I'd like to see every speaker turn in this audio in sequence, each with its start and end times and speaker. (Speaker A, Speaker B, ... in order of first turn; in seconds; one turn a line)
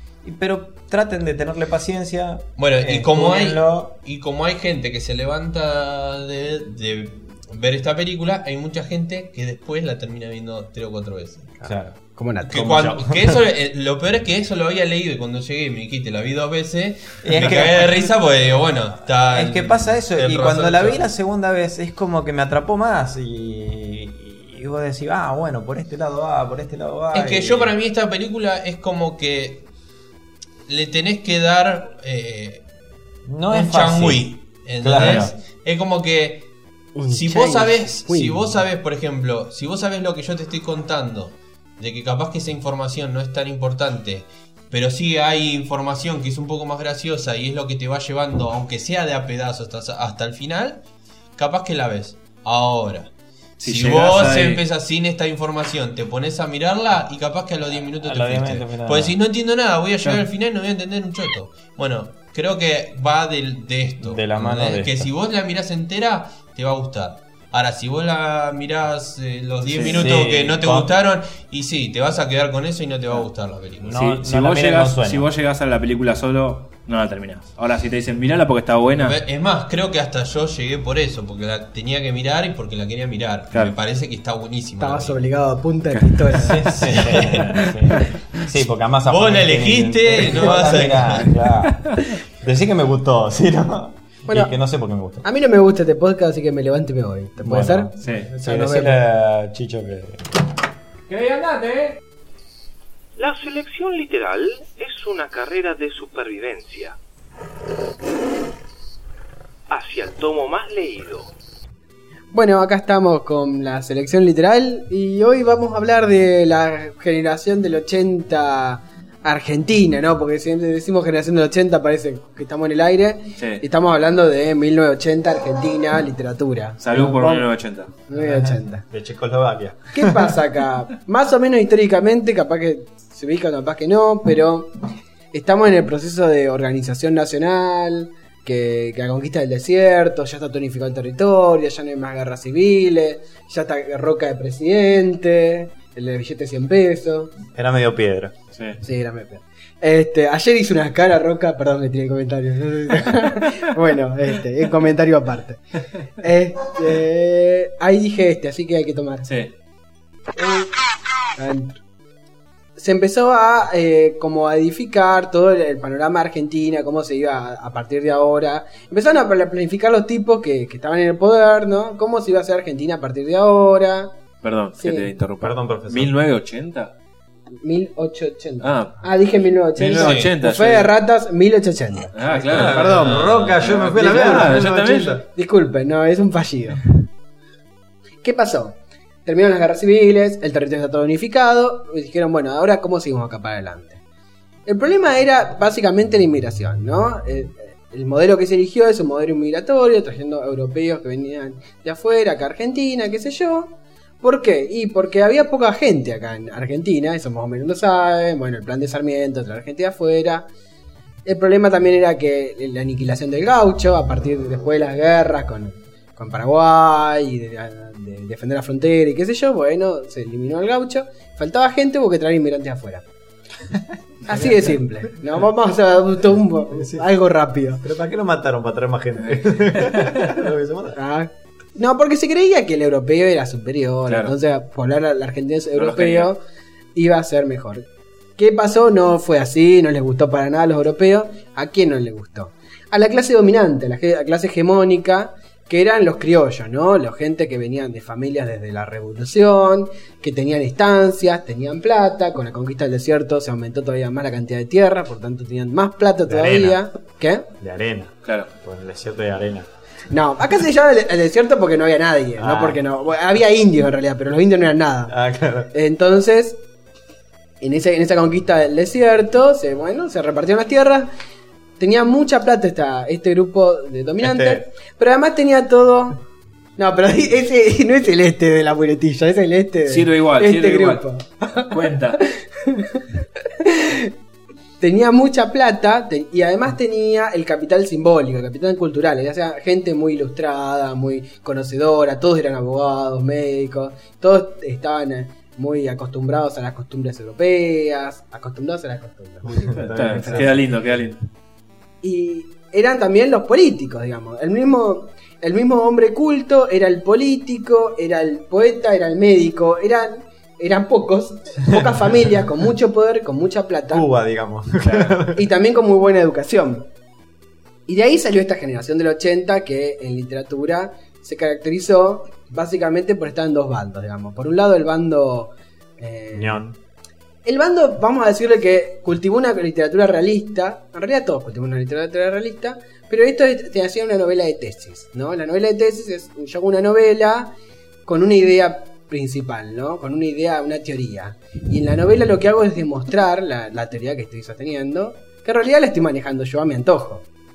Speaker A: 0.2-3.9
Speaker B: 2.6-11.5
Speaker C: 11.6-12.5
Speaker A: 11.6-13.4
Speaker B: 12.5-21.0
Speaker A: 17.2-18.1
Speaker A: 19.3-27.7
Speaker B: 27.1-29.6
Speaker B: 30.7-32.6
Speaker A: 33.3-35.3
Speaker B: 33.5-36.5
Speaker C: 37.0-38.4
Speaker B: 37.1-50.8
Speaker B: 51.4-53.1
Speaker D: 53.6-54.6
Speaker B: 53.6-74.0
Speaker A: 58.0-59.2
Speaker A: 64.0-65.1
Speaker D: 69.7-70.1
Speaker A: 69.8-70.9
Speaker A: 73.8-75.3
Speaker D: 73.9-79.2
Speaker B: 79.0-85.2
Speaker C: 84.8-86.8
Speaker D: 85.9-86.7
Speaker A: 86.4-95.2
Speaker B: 86.8-87.6
Speaker B: 89.1-91.3
Speaker D: 91.2-91.7
Speaker C: 94.3-94.5
Speaker C: 95.2-99.0
Speaker A: 97.4-100.2
Speaker D: 98.0-98.3
Speaker D: 101.1-102.0
Speaker E: 103.2-107.0
Speaker E: 109.7-111.3
Speaker C: 112.3-127.5
Speaker D: 123.4-123.6
Speaker D: 126.8-127.9
Speaker C: 128.1-128.8
Speaker A: 128.2-130.4
Speaker C: 129.9-134.7
Speaker C: 135.3-147.3
Speaker A: 147.5-148.3
Speaker C: 148.8-155.6
Speaker C: 156.2-159.3
Speaker C: 160.4-160.7
Speaker C: 161.4-161.8
Speaker C: 162.8-174.1
Speaker D: 174.4-176.9
Speaker C: 174.8-175.1
Speaker A: 175.4-176.1
Speaker C: 177.6-183.2
Speaker D: 178.6-179.0
Speaker D: 179.8-180.9
Speaker B: 180.0-180.3
Speaker D: 182.1-185.2
Speaker A: 182.5-185.2
Speaker B: 183.1-183.5
Speaker C: 184.0-186.8
Speaker C: 188.2-194.0
Speaker C: 194.7-210.5
Speaker C: 211.2-223.1
Speaker C: 224.3-227.8
Speaker A: 224.3-224.7
Speaker A: 226.7-227.1
Speaker A: 227.8-231.0
Speaker D: 229.8-230.3
Speaker C: 230.9-236.4
Speaker D: 234.1-234.3
Speaker D: 235.8-236.3
Speaker C: 236.9-257.5
Speaker A: 256.3-256.8
Speaker A: 257.6-259.7
Speaker C: 260.1-265.1
Speaker A: 262.4-262.8
Speaker A: 265.1-265.7
Speaker C: 265.7-266.6
Speaker C: 267.6-271.1
Speaker C: 271.8-276.2
Speaker A: 274.2-274.6
Speaker C: 276.8-283.0
Speaker D: 279.9-281.0
Speaker D: 281.6-282.2
Speaker C: 283.6-284.1
Speaker C: 284.8-300.6
Speaker A: 299.4-300.7
Speaker D: 299.8-301.2
Speaker C: 302.0-314.1
Speaker A: 313.9-315.4
Speaker D: 314.8-315.1
Speaker C: 315.3-316.9
Speaker C: 317.9-326.6
Speaker A: 326.3-326.8
Speaker C: 327.4-337.5
Speaker C: 338.1-347.2